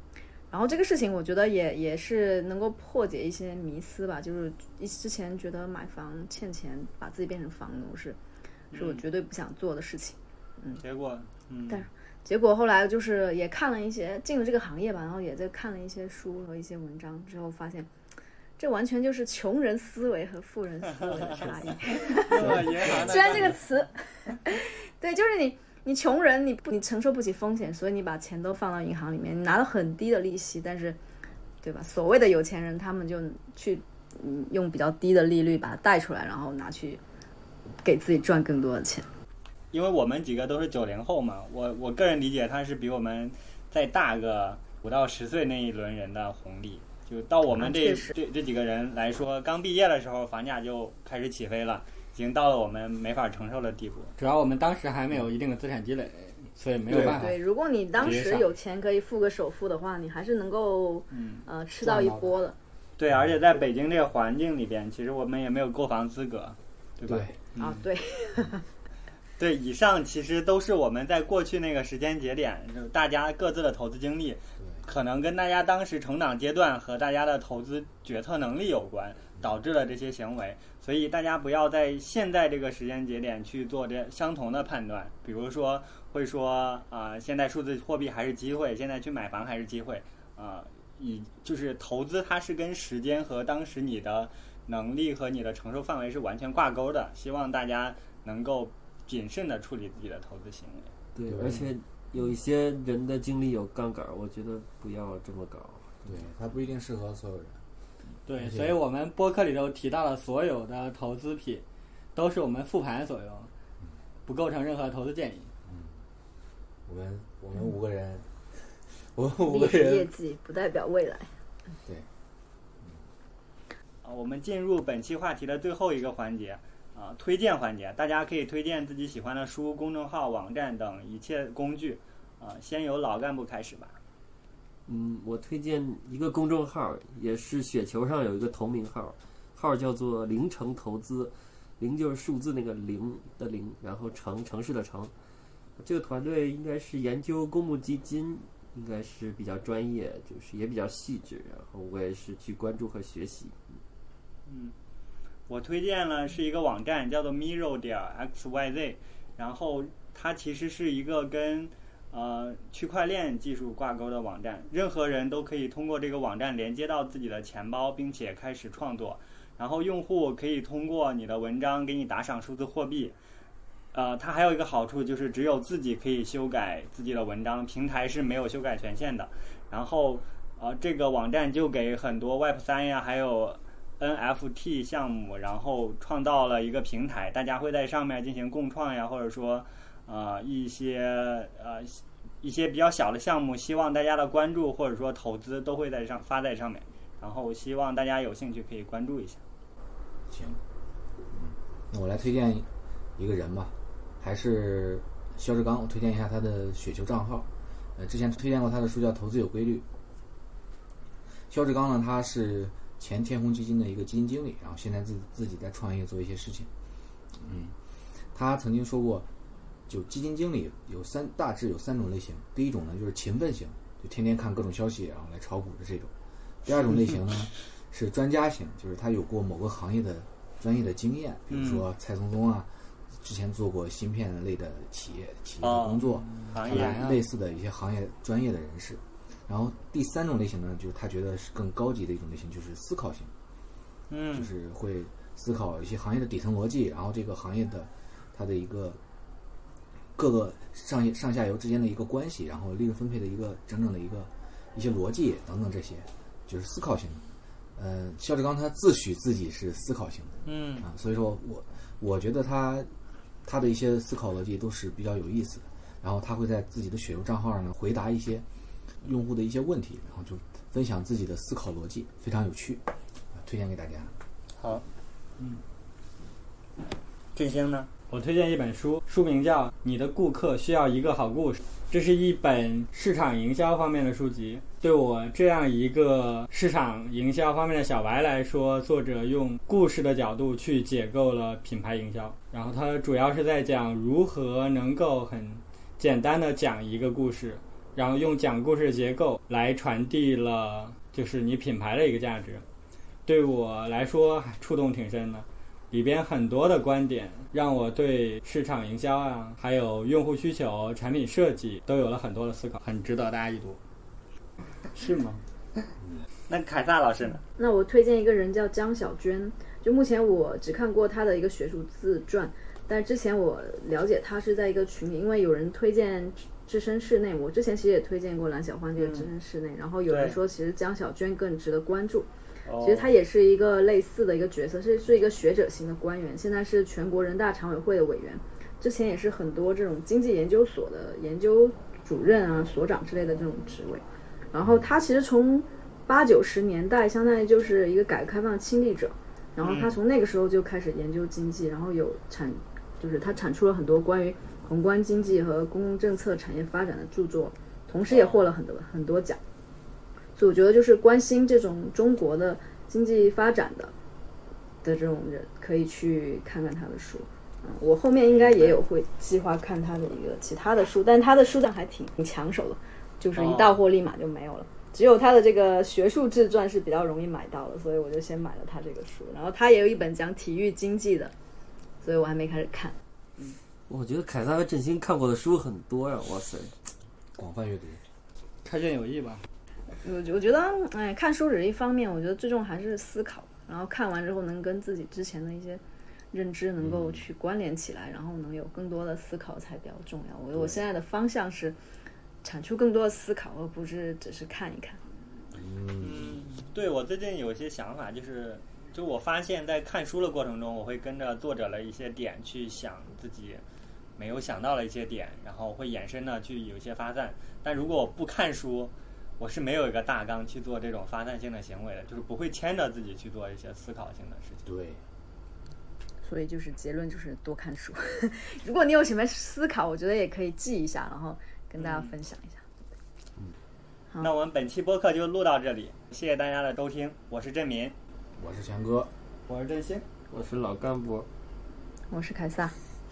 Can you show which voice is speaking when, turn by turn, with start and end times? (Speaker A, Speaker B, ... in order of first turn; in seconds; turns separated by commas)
Speaker A: 0.5-8.2, Speaker B: 8.7-9.0, Speaker A: 8.7-10.8, Speaker B: 10.8-11.9, Speaker A: 11.7-17.9, Speaker A: 18.6-31.0, Speaker B: 21.4-23.6, Speaker A: 31.6-37.0, Speaker A: 37.8-39.1, Speaker B: 39.7-54.1, Speaker A: 47.6-48.1, Speaker C: 54.2-57.3, Speaker D: 56.9-57.3, Speaker A: 56.9-62.5, Speaker C: 58.0-58.5, Speaker B: 61.1-61.5, Speaker D: 61.8-62.3, Speaker B: 63.0-67.7, Speaker D: 67.1-67.4, Speaker A: 67.6-68.6, Speaker B: 69.4-100.9, Speaker E: 101.1-106.1, Speaker D: 101.2-101.7, Speaker D: 106.0-107.6, Speaker C: 108.3-111.6, Speaker D: 108.4-108.7, Speaker C: 112.1-113.5, Speaker C: 114.3-115.5, Speaker D: 115.7-116.0, Speaker D: 116.9-120.1, Speaker A: 119.5-121.3, Speaker B: 124.0-134.0, Speaker E: 134.9-145.1, Speaker E: 145.8-153.6, Speaker B: 154.4-154.7, Speaker B: 155.5-173.1, Speaker B: 173.9-199.4, Speaker D: 200.3-200.6, Speaker D: 201.3-202.7, Speaker D: 203.2-209.8, Speaker D: 211.5-216.7, Speaker D: 217.4-217.7, Speaker D: 218.3-219.3, Speaker D: 219.9-226.1, Speaker D: 226.6-243.3, Speaker B: 231.5-231.8, Speaker B: 235.6-237.2, Speaker C: 236.8-237.1, Speaker B: 244.1-244.5, Speaker D: 244.3-249.0, Speaker D: 250.2-257.2, Speaker D: 257.8-262.9, Speaker B: 260.4-260.9, Speaker D: 263.4-268.4, Speaker D: 269.0-274.1, Speaker B: 274.6-274.8, Speaker B: 277.3-277.9, Speaker C: 278.1-302.6, Speaker C: 303.2-313.8, Speaker C: 314.9-315.4, Speaker B: 316.5-317.4, Speaker A: 317.6-359.4, Speaker B: 329.0-329.3, Speaker B: 330.1-330.4, Speaker B: 332.6-333.1, Speaker B: 349.6-350.0, Speaker B: 358.1-358.5, Speaker A: 360.4-363.9, Speaker A: 364.8-381.3, Speaker B: 368.3-368.8, Speaker B: 373.3-373.8, Speaker A: 382.0-382.9, Speaker E: 383.9-386.8, Speaker D: 387.4-388.0, Speaker C: 388.6-389.4, Speaker A: 390.0-395.8, Speaker A: 396.3-401.8, Speaker D: 396.8-397.2, Speaker A: 402.4-405.0, Speaker D: 405.6-406.4, Speaker B: 406.0-413.6, Speaker B: 414.2-424.6, Speaker D: 424.6-425.0, Speaker A: 426.2-432.6, Speaker B: 431.8-432.1, Speaker B: 434.2-437.9, Speaker D: 438.4-439.1, Speaker C: 439.5-440.1, Speaker E: 440.3-441.3, Speaker A: 442.1-442.7